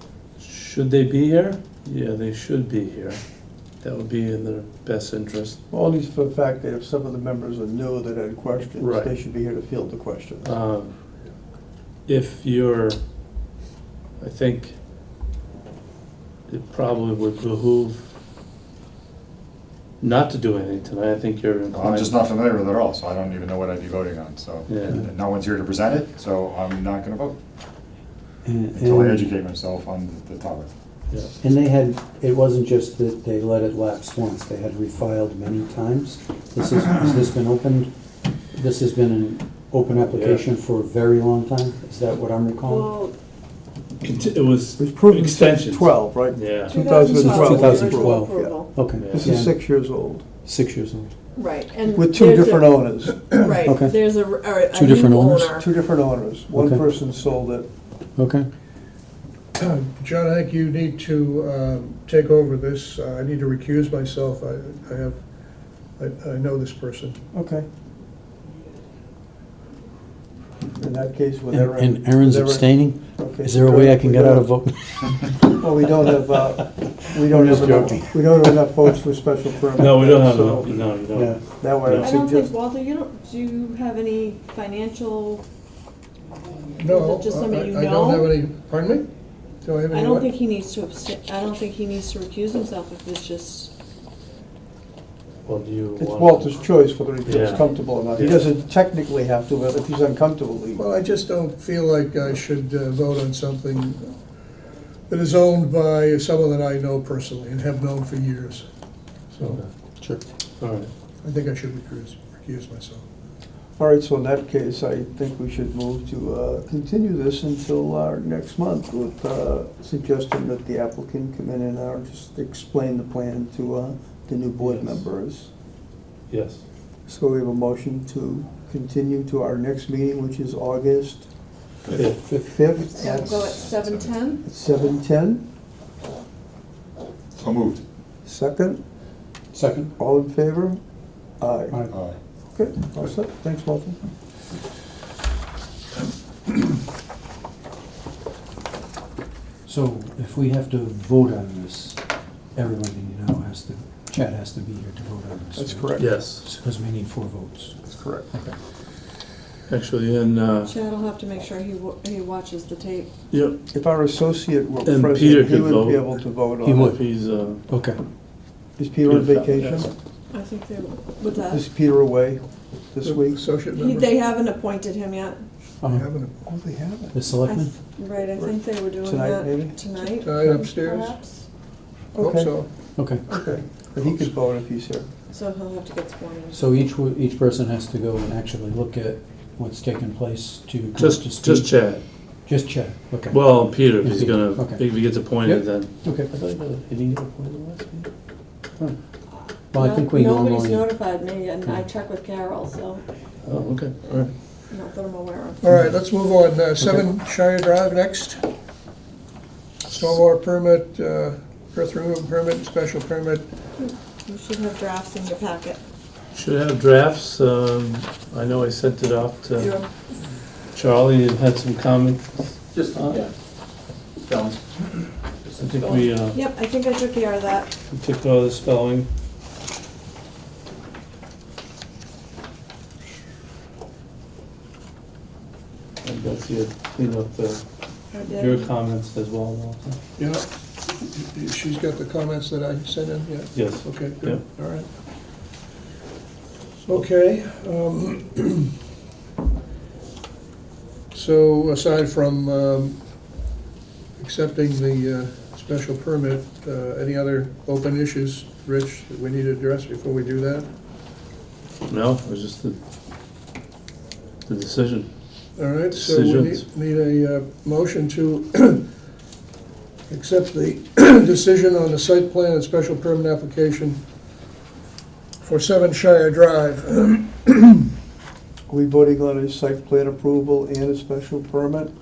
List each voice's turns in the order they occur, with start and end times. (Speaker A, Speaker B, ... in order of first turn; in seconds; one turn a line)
Speaker A: 0.4-3.2
Speaker A: 3.8-5.6
Speaker B: 5.7-10.5
Speaker A: 8.8-9.1
Speaker A: 10.4-10.9
Speaker A: 12.1-13.0
Speaker A: 14.2-14.8
Speaker A: 16.5-18.0
Speaker A: 20.0-22.3
Speaker C: 21.7-27.4
Speaker A: 24.7-25.0
Speaker D: 28.4-29.3
Speaker C: 28.7-30.7
Speaker D: 31.4-37.9
Speaker D: 38.5-42.9
Speaker A: 40.1-40.4
Speaker E: 42.6-43.1
Speaker A: 44.0-47.0
Speaker B: 44.8-48.5
Speaker E: 46.7-48.7
Speaker D: 47.0-49.6
Speaker A: 49.0-49.3
Speaker B: 49.1-50.2
Speaker D: 50.4-51.1
Speaker E: 51.4-55.7
Speaker B: 51.9-53.2
Speaker D: 53.6-54.0
Speaker D: 54.7-55.5
Speaker B: 55.6-57.7
Speaker D: 56.5-56.8
Speaker D: 58.2-58.5
Speaker F: 59.5-65.2
Speaker F: 66.0-67.2
Speaker B: 67.3-67.7
Speaker B: 70.8-74.5
Speaker D: 71.5-75.3
Speaker B: 75.4-80.8
Speaker D: 77.3-78.2
Speaker A: 77.4-78.0
Speaker A: 79.7-82.1
Speaker D: 81.1-81.4
Speaker B: 81.5-82.5
Speaker E: 81.9-85.4
Speaker F: 86.8-89.1
Speaker E: 86.9-88.3
Speaker F: 89.6-90.3
Speaker E: 89.9-93.7
Speaker A: 95.4-96.6
Speaker B: 96.0-100.9
Speaker A: 97.2-98.5
Speaker F: 100.7-104.2
Speaker F: 105.1-108.6
Speaker F: 109.3-109.6
Speaker A: 109.4-109.7
Speaker A: 110.6-110.9
Speaker F: 111.2-113.0
Speaker B: 113.8-125.5
Speaker A: 124.6-125.1
Speaker A: 126.3-126.6
Speaker B: 127.1-131.3
Speaker C: 131.8-132.2
Speaker B: 132.1-133.5
Speaker D: 132.3-132.8
Speaker E: 132.9-134.4
Speaker C: 133.2-134.3
Speaker B: 134.4-135.4
Speaker C: 137.3-137.8
Speaker B: 138.2-138.8
Speaker D: 139.5-139.9
Speaker B: 140.0-140.8
Speaker B: 141.4-141.8
Speaker D: 141.7-142.0
Speaker C: 141.9-142.2
Speaker B: 142.5-144.0
Speaker D: 149.7-152.0
Speaker D: 152.5-158.6
Speaker B: 155.6-156.2
Speaker A: 156.0-156.4
Speaker B: 157.9-158.3
Speaker A: 159.7-160.7
Speaker E: 160.7-163.1
Speaker A: 163.3-163.6
Speaker B: 163.7-166.9
Speaker A: 164.8-167.6
Speaker D: 166.6-168.0
Speaker B: 168.8-169.9
Speaker A: 169.0-169.9
Speaker E: 170.3-171.6
Speaker B: 171.5-173.4
Speaker F: 173.0-174.1
Speaker E: 173.7-175.4
Speaker D: 175.8-176.1
Speaker F: 175.9-176.5
Speaker B: 176.4-177.1
Speaker D: 177.1-177.7
Speaker E: 177.4-181.4
Speaker B: 178.3-179.8
Speaker F: 180.0-181.1
Speaker B: 182.1-182.6
Speaker F: 182.2-182.7
Speaker D: 183.0-183.2
Speaker B: 183.3-185.1
Speaker F: 183.9-184.3
Speaker E: 185.3-186.7
Speaker D: 186.5-191.7
Speaker A: 190.9-192.0
Speaker D: 192.4-196.3
Speaker A: 193.3-198.1
Speaker D: 199.7-200.9
Speaker E: 199.7-203.0
Speaker A: 203.4-204.3
Speaker E: 204.7-205.6
Speaker F: 205.6-208.4
Speaker D: 206.8-207.0
Speaker F: 209.9-213.4
Speaker E: 213.8-215.8
Speaker A: 216.3-219.8
Speaker E: 219.6-219.9
Speaker A: 220.7-223.2
Speaker C: 222.7-223.3
Speaker C: 224.3-224.6
Speaker A: 225.6-226.4
Speaker E: 225.8-227.7
Speaker A: 227.9-229.1
Speaker A: 236.0-237.6
Speaker E: 238.1-238.7
Speaker A: 238.3-240.0
Speaker F: 240.2-240.4
Speaker F: 241.1-244.9
Speaker A: 243.5-244.4
Speaker F: 246.8-248.7
Speaker F: 251.1-253.0
Speaker F: 254.2-260.7
Speaker A: 261.9-262.8
Speaker A: 264.4-265.1
Speaker F: 265.6-268.9
Speaker A: 265.9-266.6
Speaker F: 270.1-274.0
Speaker F: 275.4-277.9
Speaker B: 278.7-281.9